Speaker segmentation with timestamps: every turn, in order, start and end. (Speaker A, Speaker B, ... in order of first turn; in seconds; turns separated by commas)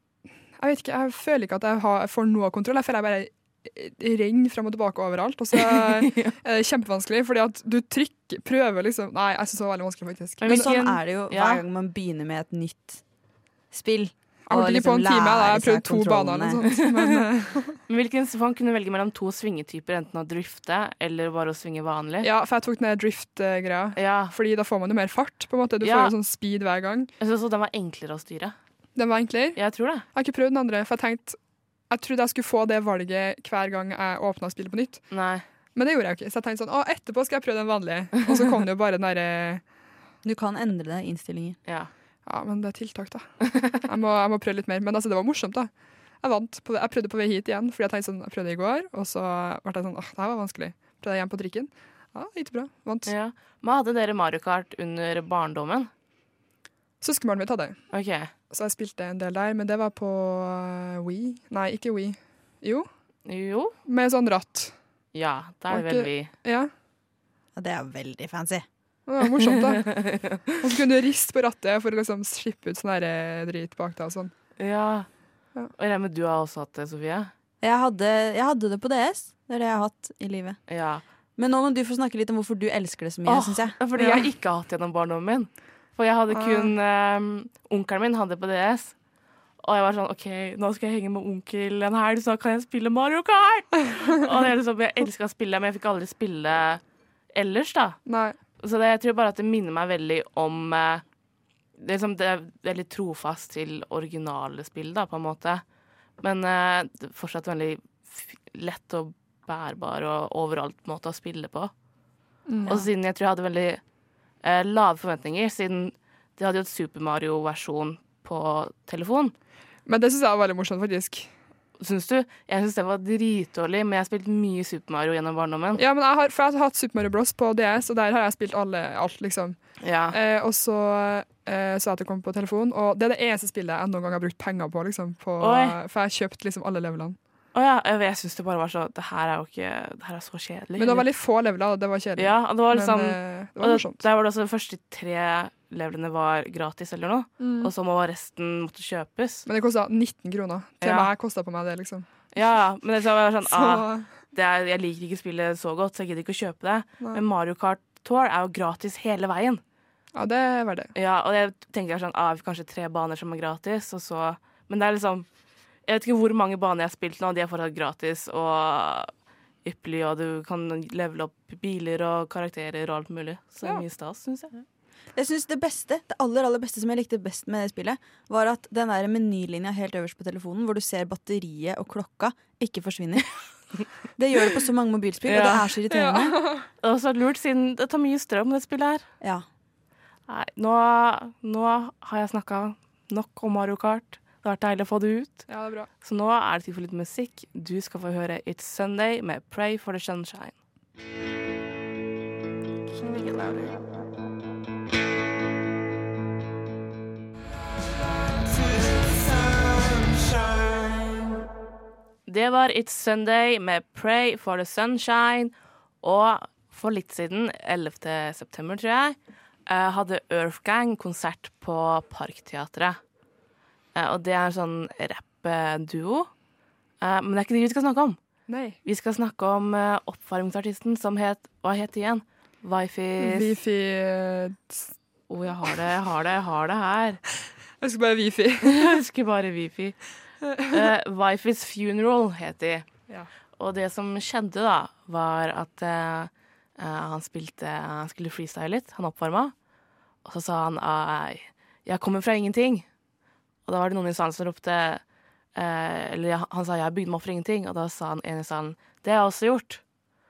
Speaker A: 0.6-10.7, Speaker B: 5.5-6.3, Speaker B: 10.4-11.6, Speaker C: 10.4-13.0, Speaker C: 13.7-16.6, Speaker A: 14.5-17.8, Speaker B: 17.9-22.3, Speaker A: 22.2-27.1, Speaker B: 23.9-24.3, Speaker B: 25.8-26.1, Speaker B: 27.2-28.6, Speaker A: 28.9-31.4, Speaker B: 29.6-30.1, Speaker A: 31.9-35.1, Speaker B: 35.1-35.4, Speaker A: 35.7-39.6, Speaker C: 40.2-41.6, Speaker A: 42.2-45.7, Speaker A: 46.2-53.1, Speaker B: 53.1-55.9, Speaker A: 57.0-57.8, Speaker B: 57.9-58.3, Speaker A: 58.5-62.9, Speaker B: 63.2-63.7, Speaker A: 63.9-64.7, Speaker B: 65.1-66.3, Speaker A: 65.7-66.7, Speaker C: 67.6-68.6, Speaker A: 69.1-69.9, Speaker B: 69.5-70.5, Speaker A: 70.6-74.3, Speaker B: 74.6-75.1, Speaker B: 75.8-77.3, Speaker C: 77.6-80.6, Speaker B: 80.7-81.0, Speaker C: 81.4-83.8, Speaker B: 83.2-88.9, Speaker A: 84.0-84.2, Speaker A: 86.3-86.7, Speaker B: 89.6-96.8, Speaker B: 97.3-98.0, Speaker A: 98.1-98.4, Speaker B: 98.6-101.0, Speaker B: 101.8-105.6, Speaker B: 106.2-111.7, Speaker A: 112.5-112.9, Speaker B: 112.7-113.8, Speaker B: 114.4-119.3, Speaker A: 119.9-121.3, Speaker B: 121.8-125.8, Speaker A: 125.8-129.6, Speaker B: 129.8-130.2, Speaker A: 130.1-137.2, Speaker B: 135.4-135.8, Speaker B: 137.6-141.1, Speaker A: 140.8-144.0, Speaker B: 142.2-149.4, Speaker A: 147.4-147.7, Speaker A: 149.4-152.1, Speaker B: 150.8-151.1, Speaker B: 152.3-159.6, Speaker A: 153.4-154.1, Speaker A: 160.1-160.9, Speaker B: 160.9-165.2, Speaker B: 165.9-169.1, Speaker B: 169.6-174.5, Speaker C: 175.1-183.3, Speaker C: 184.2-186.4, Speaker B: 185.2-185.7, Speaker A: 185.9-186.7, Speaker B: 186.8-189.1, Speaker B: 190.3-195.5, Speaker A: 195.5-195.9, Speaker B: 196.0-200.6, Speaker B: 203.2-203.7, Speaker B: 212.3-223.0, Speaker B: 223.9-226.3, Speaker B: 227.0-228.2, Speaker A: 228.5-228.8, Speaker B: 228.8-233.5, Speaker A: 233.2-234.9, Speaker B: 235.3-237.2, Speaker A: 237.8-239.0, Speaker B: 238.6-240.0, Speaker A: 240.4-240.8, Speaker B: 240.6-242.9, Speaker B: 243.6-249.5, Speaker B: 250.2-252.9, Speaker B: 253.7-255.0, Speaker B: 255.6-259.8